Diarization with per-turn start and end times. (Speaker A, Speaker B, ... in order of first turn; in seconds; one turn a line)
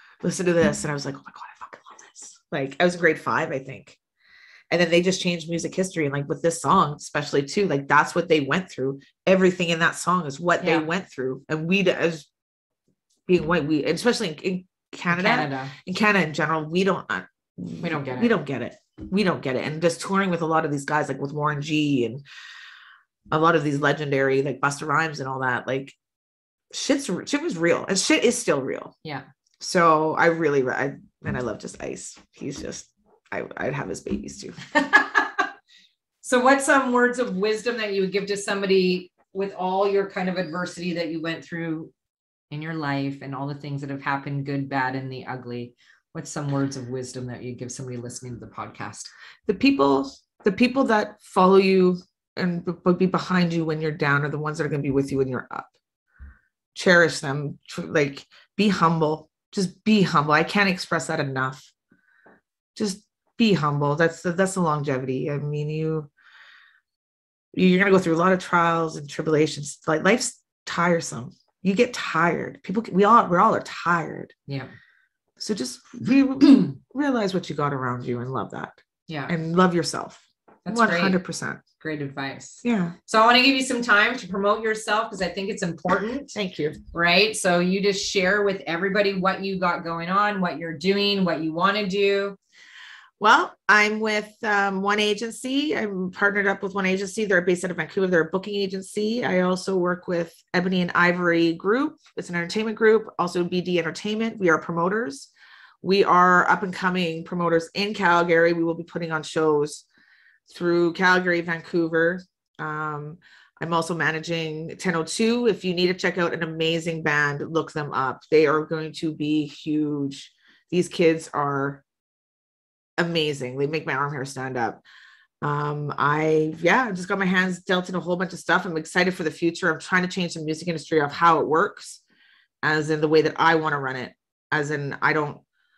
Speaker A: 0.2-4.0
Speaker A: 4.7-12.3
Speaker B: 10.6-10.9
Speaker A: 13.3-22.2
Speaker B: 15.1-15.7
Speaker B: 17.8-18.3
Speaker A: 23.3-25.9
Speaker A: 26.7-28.9
Speaker A: 29.6-34.5
Speaker B: 34.7-35.4
Speaker B: 36.2-41.9
Speaker B: 42.5-49.1
Speaker A: 49.5-55.7
Speaker A: 56.7-61.7
Speaker A: 62.7-66.1
Speaker A: 67.5-74.3
Speaker A: 75.4-81.6
Speaker B: 79.1-79.3
Speaker B: 80.7-81.2
Speaker B: 81.8-86.4
Speaker A: 82.6-83.0
Speaker A: 86.3-86.8
Speaker B: 86.9-92.4
Speaker A: 93.2-105.3
Speaker A: 105.8-109.8
Speaker A: 110.5-121.8
Speaker A: 123.0-124.8
Speaker A: 125.4-132.0
Speaker A: 132.6-135.4